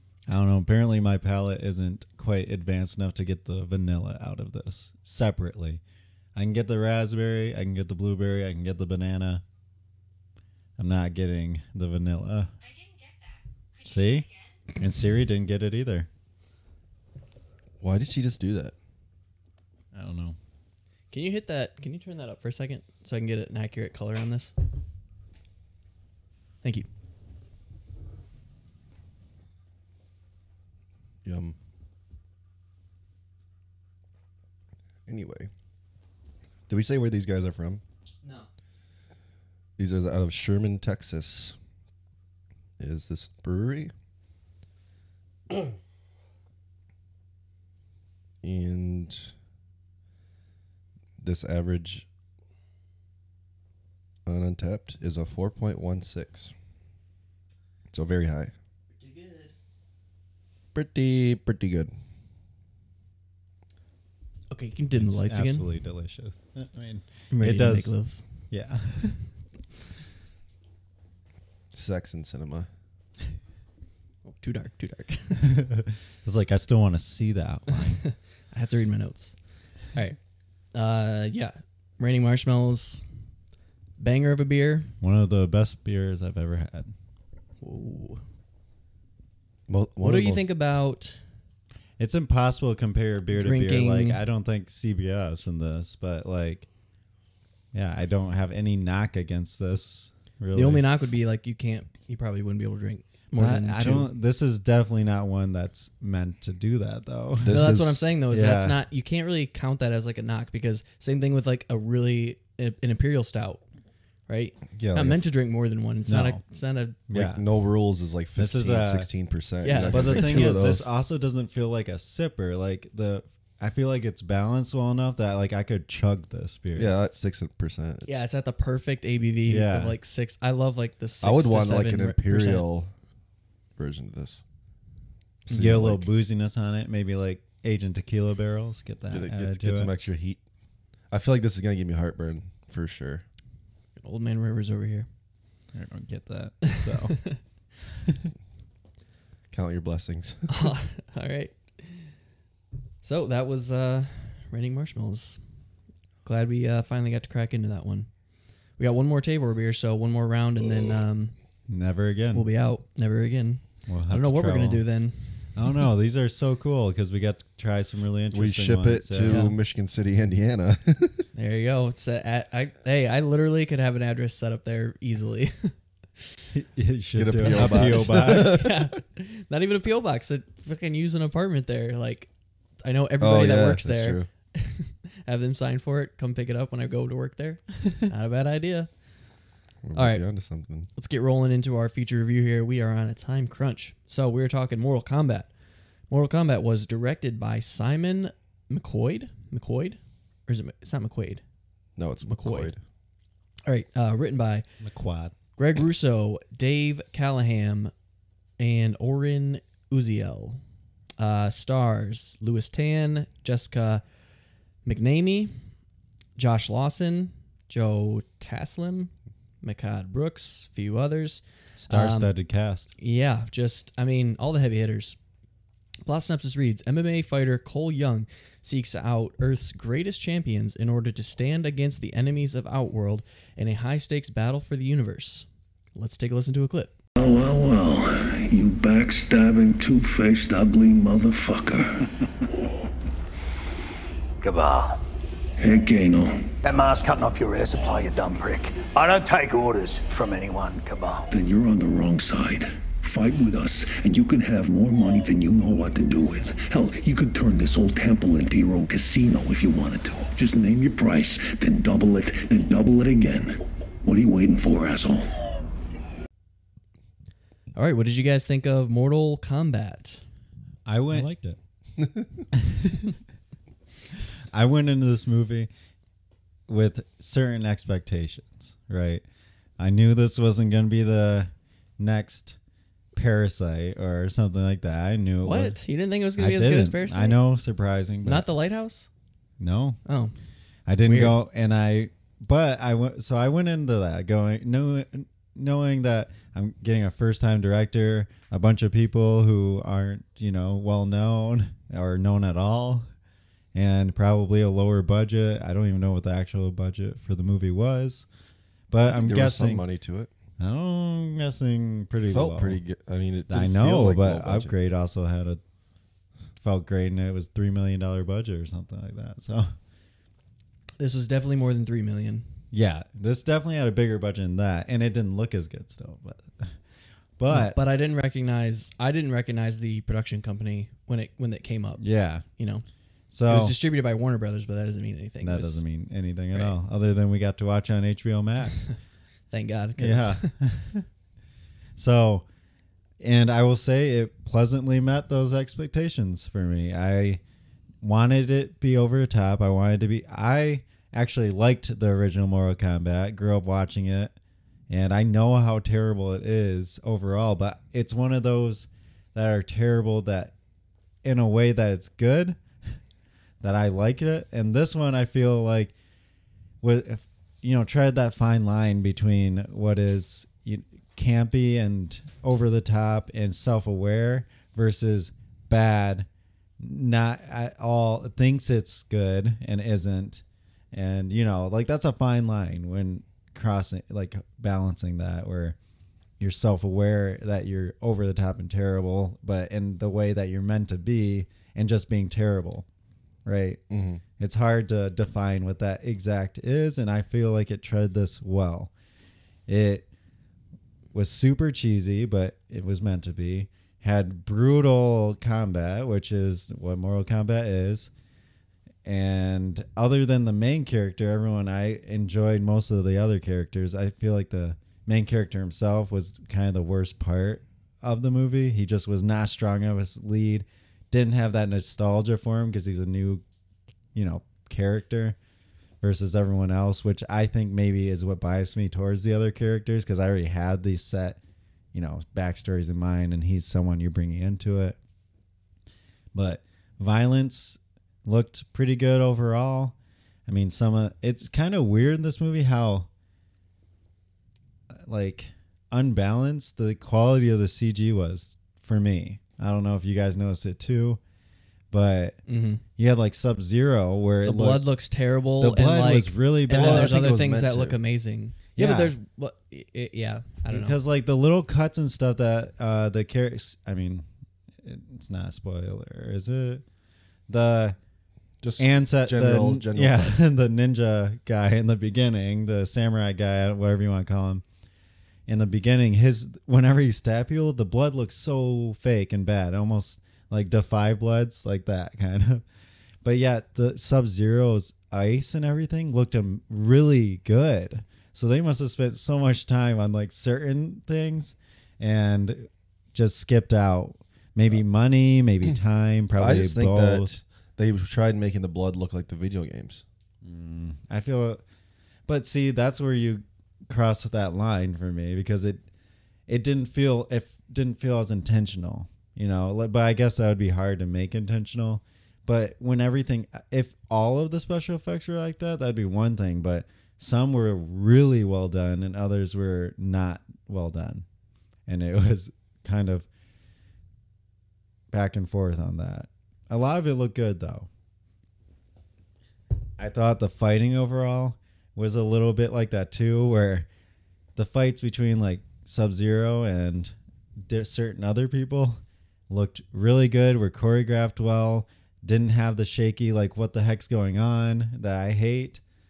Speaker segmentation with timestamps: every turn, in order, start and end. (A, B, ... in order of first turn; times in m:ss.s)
0:00.3-0:05.8 A
0:06.3-0:09.4 A
0:10.8-0:12.5 A
0:13.8-0:16.1 A
0:17.8-0:18.7 B
0:19.9-0:20.4 A
0:21.1-0:24.5 C
0:31.2-0:31.5 B
0:35.1-0:35.5 B
0:36.7-0:37.8 B
0:39.8-0:41.6 B
0:42.8-0:43.9 B
0:48.4-0:49.3 B
0:51.2-0:52.0 B
0:54.2-0:56.5 B
0:57.9-0:58.5 B
0:58.9-0:59.5 C
1:00.7-1:01.9 B
1:04.5-1:05.7 C
1:05.0-1:07.9 A
1:07.3-1:08.2 C
1:08.5-1:09.2 A
1:11.7-1:12.7 B
1:14.2-1:15.5 C
1:15.4-1:18.0 A
1:17.7-1:19.4 C
1:20.7-1:23.0 C
1:24.0-1:24.9 C
1:25.0-1:26.9 A
1:27.6-1:28.2 C
1:29.7-1:30.4 B
1:30.0-1:31.2 C
1:32.0-1:36.7 A
1:33.3-1:34.2 C
1:37.7-1:40.8 A
1:40.5-1:44.1 C
1:43.4-1:47.7 A
1:47.4-1:48.0 B
1:47.5-1:53.6 C
1:48.3-1:48.8 A
1:54.3-1:57.0 C
1:54.8-1:55.2 B
1:56.1-1:56.4 A
1:57.1-1:57.4 A
1:57.1-2:00.8 B
1:58.4-1:59.1 A
1:59.6-2:00.5 C
1:59.9-2:06.9 A
2:06.8-2:08.2 B
2:08.0-2:12.6 C
2:09.5-2:10.0 A
2:11.2-2:12.9 B
2:13.8-2:14.4 B
2:15.4-2:16.1 B
2:15.5-2:19.9 A
2:19.1-2:20.4 B
2:21.1-2:23.2 B
2:24.0-2:25.1 C
2:25.7-2:27.2 A
2:26.7-2:27.4 C
2:28.0-2:28.3 A
2:29.5-2:30.7 B
2:30.5-2:32.1 C
2:33.0-2:35.4 C
2:36.2-2:38.1 C
2:38.8-2:41.3 C
2:41.7-2:42.5 A
2:42.3-2:45.5 C
2:43.9-2:44.8 A
2:45.5-2:49.5 A
2:48.3-2:51.2 B
2:49.3-2:49.6 C
2:51.3-2:55.8 C
2:56.5-2:58.6 A
2:57.1-2:58.9 B
2:57.5-3:02.3 C
3:02.8-3:08.9 C
3:03.2-3:04.3 B
3:09.8-3:10.9 B
3:09.9-3:10.2 C
3:11.0-3:15.5 C
3:16.1-3:21.4 C
3:22.0-3:22.8 B
3:22.2-3:22.7 C
3:23.6-3:24.6 C
3:24.8-3:25.3 A
3:25.6-3:27.9 C
3:28.6-3:30.6 C
3:31.2-3:34.0 C
3:34.8-3:35.5 C
3:36.4-3:42.3 C
3:41.8-3:42.9 A
3:43.0-3:45.2 C
3:46.0-3:56.9 C
3:57.2-4:02.1 D
4:04.4-4:05.0 E
4:05.6-4:06.5 D
4:06.6-4:11.3 E
4:11.3-4:25.3 D
4:27.7-4:30.2 C
4:30.8-4:31.6 A
4:32.5-4:33.2 A
4:34.5-4:35.7 A
4:36.7-4:39.2 A
4:39.8-4:42.6 A
4:43.1-4:45.8 A
4:45.4-4:47.4 C
4:46.4-4:48.5 A
4:48.2-4:49.1 C
4:49.6-4:50.0 A
4:50.0-4:50.3 C
4:50.9-5:03.0 A
4:51.0-4:51.4 C
5:03.7-5:08.2 A
5:08.9-5:09.8 A
5:09.0-5:10.3 B
5:10.6-5:12.8 A
5:12.2-5:14.7 B
5:13.5-5:15.6 A
5:16.6-5:19.7 A
5:21.0-5:22.4 C
5:22.7-5:26.8 A
5:27.4-5:27.8 A
5:27.5-5:32.0 C
5:32.0-5:32.4 A
5:32.6-5:32.8 C
5:33.3-5:33.8 A
5:33.5-5:35.8 C
5:35.4-5:38.9 A
5:39.5-5:40.5 C
5:40.0-5:41.0 A
5:42.0-5:42.4 A
5:43.2-5:47.4 A
5:48.0-5:54.3 A
5:54.9-6:00.5 A
6:01.2-6:02.6 A
6:03.6-6:05.9 A
6:06.8-6:16.3 A
6:16.8-6:25.8 A
6:26.4-6:32.8 A
6:33.4-6:33.8 A
6:33.9-6:34.2 B
6:34.4-6:38.9 A
6:39.7-6:40.1 A
6:41.1-6:48.1 A
6:49.0-7:03.4 A
7:04.1-7:05.4 A
7:06.0-7:11.4 A
7:11.9-7:15.0 A
7:16.3-7:19.9 A
7:20.5-7:23.1 A
7:24.9-7:31.2 A
7:31.9-7:32.4 A
7:32.5-7:32.8 C
7:33.0-7:34.9 A
7:34.4-7:41.0 C
7:35.6-7:37.2 A
7:36.7-7:38.0 B
7:38.8-7:39.1 A
7:40.7-7:44.2 A
7:44.8-7:46.8 A
7:47.5-7:48.0 A
7:48.6-7:50.4 B
7:48.8-7:54.6 A
7:55.5-8:02.6 A
8:03.2-8:17.3 A
8:16.4-8:20.0 B
8:20.4-8:21.6 A
8:22.3-8:25.8 A
8:26.5-8:41.2 A
8:41.9-8:43.3 A
8:45.1-8:47.9 A
8:50.0-8:53.9 A
8:54.6-9:05.8 A